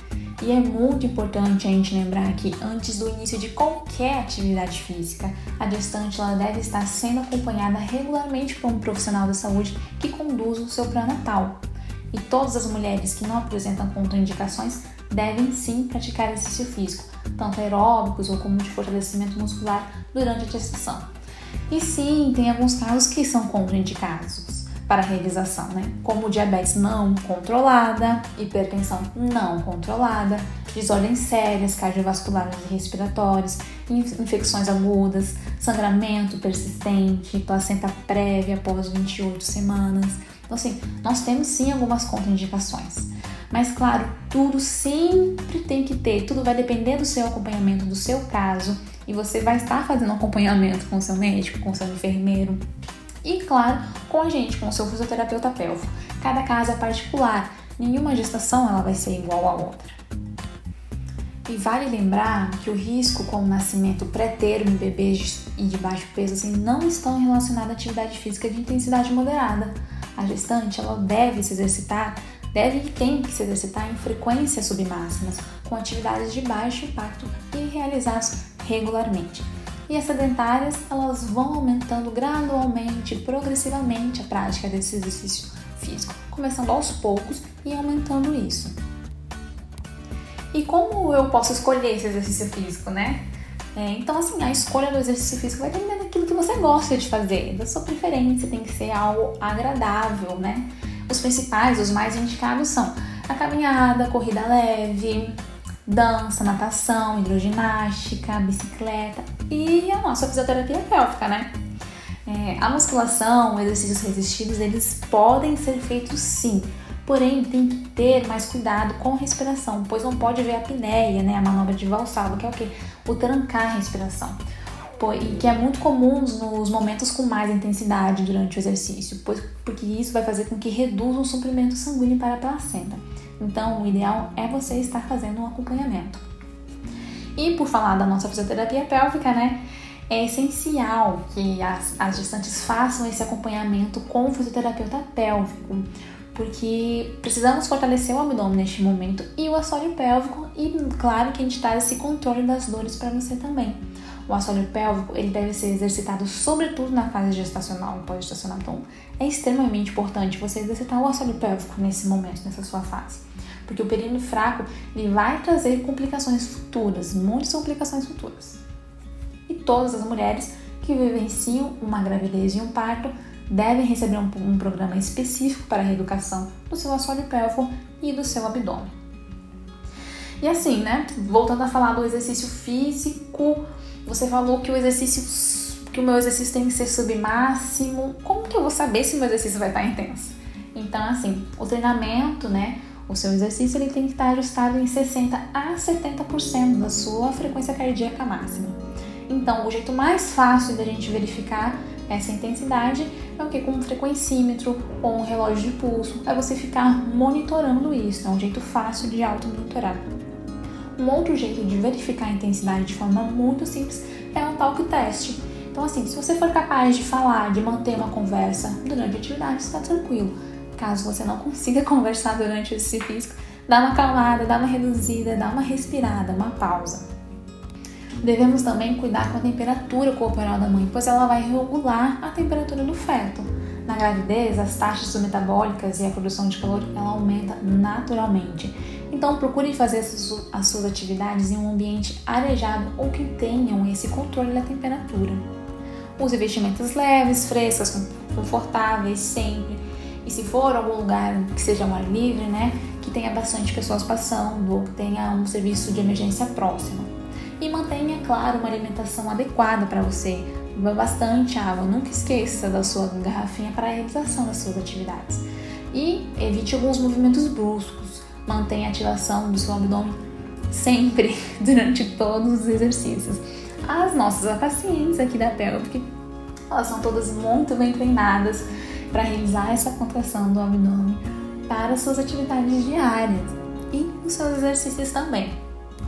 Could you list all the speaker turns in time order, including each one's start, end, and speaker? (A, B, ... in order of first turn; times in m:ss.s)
0:00.4-0:11.6 A
0:12.1-0:21.1 A
0:21.7-0:52.6 A
0:53.2-1:00.0 A
1:01.5-1:28.8 A
1:30.5-1:33.2 A
1:33.8-1:51.5 A
1:52.3-2:04.4 A
2:05.0-2:16.2 A
2:17.4-2:48.6 A
2:49.5-2:58.9 A
3:00.4-3:18.8 A
3:19.3-3:30.0 A
3:31.0-3:47.1 A
3:48.2-4:05.4 A
4:06.2-4:30.2 A
4:30.7-4:36.1 A
4:36.7-4:45.6 A